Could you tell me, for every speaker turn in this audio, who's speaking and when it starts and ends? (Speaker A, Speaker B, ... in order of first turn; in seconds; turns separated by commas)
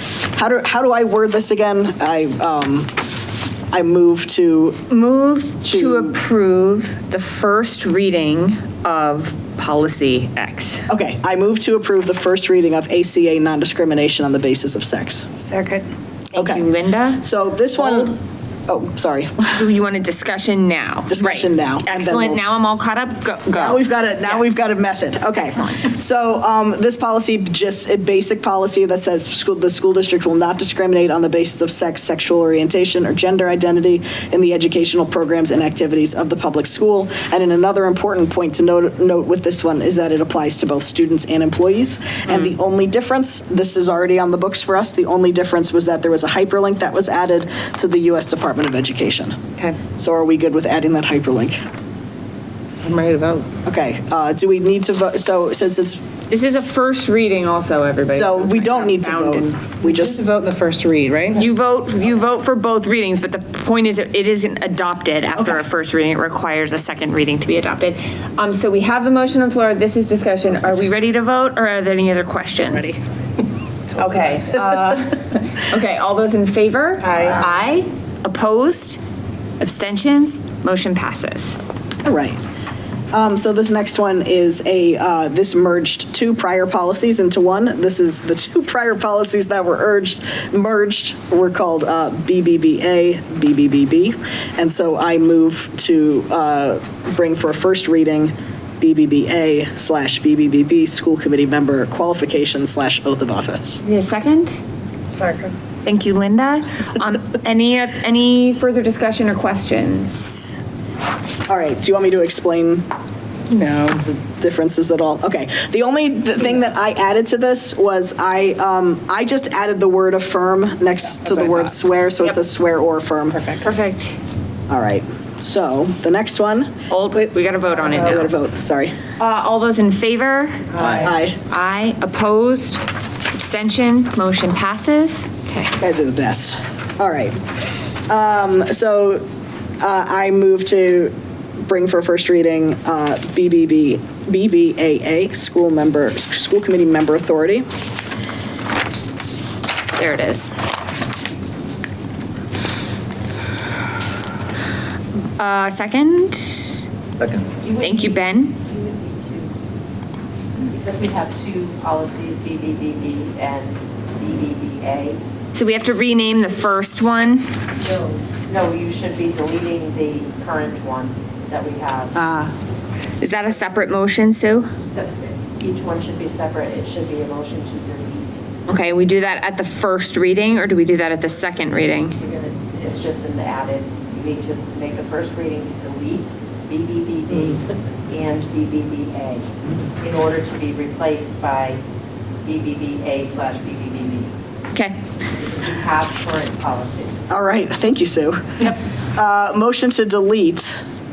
Speaker A: 0.3-2.9, Speaker A: 3.7-4.8, Speaker B: 4.9-10.9, Speaker A: 5.6-6.2, Speaker A: 10.9-15.4, Speaker C: 15.5-15.8, Speaker B: 16.3-17.2, Speaker A: 16.3-19.6, Speaker B: 17.8-18.1, Speaker B: 19.5-24.6, Speaker A: 21.1-22.4, Speaker A: 23.5-49.4, Speaker B: 25.5-25.8, Speaker B: 42.3-42.5, Speaker A: 50.0-51.6, Speaker B: 52.8-53.5, Speaker A: 53.6-56.0, Speaker B: 56.3-59.7, Speaker A: 58.1-60.2, Speaker C: 60.1-61.3, Speaker B: 61.3-73.0, Speaker B: 73.9-79.0, Speaker B: 79.6-81.6, Speaker A: 82.0-82.4, Speaker A: 83.1-103.8, Speaker B: 103.8-104.6, Speaker C: 105.1-105.5, Speaker B: 105.8-110.5, Speaker A: 111.5-112.8, Speaker B: 113.5-114.0, Speaker A: 114.1-123.5, Speaker B: 123.6-124.2, Speaker A: 124.7-126.7, Speaker B: 126.9-128.3, Speaker A: 128.0-128.9, Speaker B: 129.2-130.8, Speaker C: 130.8-131.1, Speaker A: 130.8-131.4, Speaker B: 131.4-135.7, Speaker A: 135.8-137.4, Speaker A: 138.1-139.2, Speaker A: 139.8-147.7, Speaker B: 149.9-150.5, Speaker B: 155.4-156.8, Speaker C: 157.2-157.5, Speaker D: 157.6-159.5, Speaker B: 157.8-158.6, Speaker D: 160.7-165.2, Speaker B: 165.5-167.6, Speaker D: 167.8-172.3, Speaker B: 173.2-174.8, Speaker D: 174.8-178.4, Speaker B: 178.7-182.2, Speaker D: 181.6-191.8, Speaker D: 192.4-194.3, Speaker D: 195.3-197.3, Speaker A: 197.3-200.8